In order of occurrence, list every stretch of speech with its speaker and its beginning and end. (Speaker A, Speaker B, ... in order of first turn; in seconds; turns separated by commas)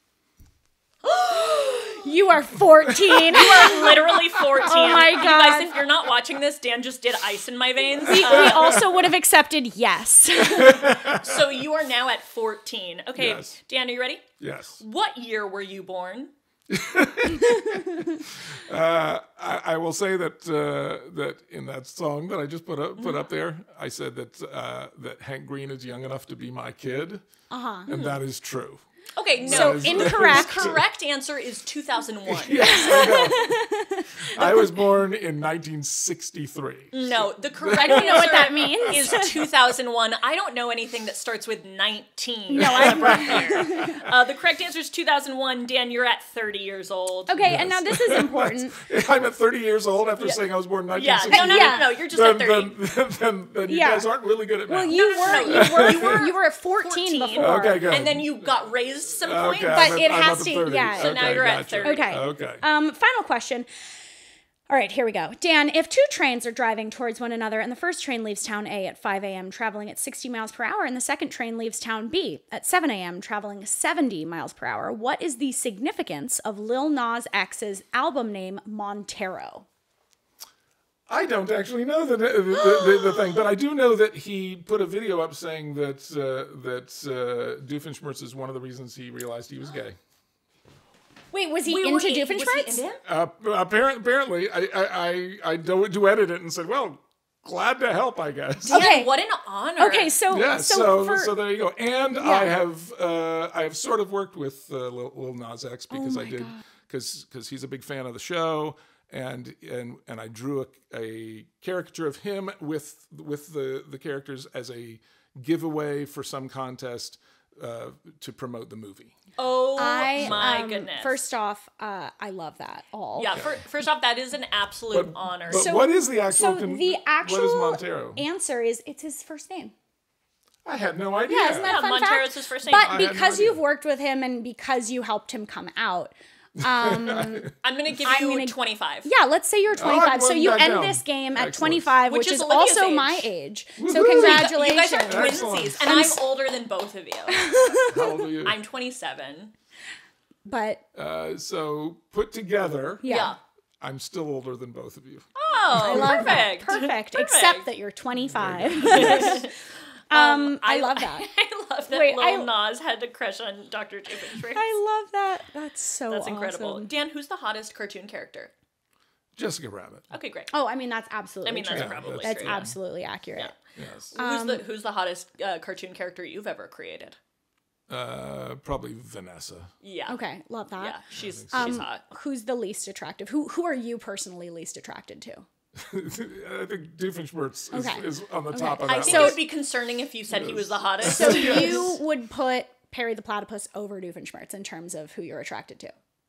Speaker A: 1.0-2.1, Speaker B: 1.9-4.0, Speaker C: 2.9-5.3, Speaker A: 3.3-8.8, Speaker B: 4.6-5.8, Speaker C: 8.0-9.1, Speaker B: 8.1-11.0, Speaker C: 10.4-11.7, Speaker A: 11.1-16.3, Speaker C: 13.2-13.5, Speaker C: 14.4-14.8, Speaker C: 16.7-27.2, Speaker B: 27.5-27.9, Speaker C: 27.9-28.8, Speaker A: 27.9-28.2, Speaker A: 29.2-33.3, Speaker C: 29.4-30.8, Speaker B: 29.5-30.7, Speaker C: 32.3-33.7, Speaker B: 32.6-34.5, Speaker C: 34.3-39.5, Speaker A: 36.9-47.6, Speaker B: 37.8-39.4, Speaker B: 42.5-44.0, Speaker C: 42.6-44.0, Speaker B: 47.3-48.8, Speaker C: 47.4-56.3, Speaker A: 50.2-52.8, Speaker B: 51.3-51.9, Speaker B: 53.7-54.1, Speaker B: 54.7-58.0, Speaker A: 54.9-60.4, Speaker C: 57.4-58.4, Speaker C: 59.2-62.6, Speaker B: 59.7-61.2, Speaker A: 61.0-62.3, Speaker B: 61.8-63.7, Speaker B: 64.7-79.7, Speaker C: 81.1-90.0, Speaker B: 91.3-92.8, Speaker A: 91.7-93.0, Speaker C: 93.0-98.8, Speaker A: 98.7-100.2, Speaker B: 98.7-99.1, Speaker B: 99.8-101.3, Speaker C: 100.3-119.2, Speaker B: 102.2-102.6, Speaker B: 105.9-106.6, Speaker A: 119.4-121.2, Speaker B: 119.8-123.4, Speaker C: 120.2-120.6, Speaker A: 123.2-125.8, Speaker C: 124.9-128.2, Speaker B: 125.5-129.7, Speaker C: 130.7-131.8, Speaker B: 131.3-137.5, Speaker A: 131.6-133.1, Speaker C: 132.8-133.6, Speaker C: 136.6-137.5, Speaker A: 137.6-139.1, Speaker B: 138.0-146.2, Speaker C: 139.7-141.9, Speaker A: 142.1-143.3, Speaker C: 143.8-146.2, Speaker A: 144.1-147.5, Speaker B: 147.3-148.0, Speaker C: 147.9-148.6, Speaker A: 148.4-149.5, Speaker B: 150.5-150.8, Speaker C: 150.9-156.4, Speaker B: 153.0-153.3, Speaker A: 153.1-153.4, Speaker A: 155.3-157.7, Speaker B: 155.8-159.5, Speaker C: 158.2-159.4, Speaker A: 158.8-159.6, Speaker B: 160.1-161.3, Speaker A: 160.1-164.7, Speaker B: 161.9-162.5, Speaker B: 164.5-166.9, Speaker A: 166.1-168.5, Speaker C: 169.4-170.1, Speaker A: 170.1-170.5, Speaker B: 170.5-173.5, Speaker A: 171.4-172.7, Speaker C: 171.7-172.8, Speaker C: 173.8-174.1, Speaker A: 174.1-177.2, Speaker B: 174.2-174.6, Speaker C: 177.9-179.7, Speaker A: 179.8-180.2, Speaker B: 180.1-181.0, Speaker A: 180.8-182.0, Speaker C: 181.2-181.8, Speaker B: 181.5-185.4, Speaker C: 185.8-189.4, Speaker B: 187.7-189.4, Speaker A: 188.8-191.9, Speaker C: 190.3-192.0, Speaker B: 191.0-195.9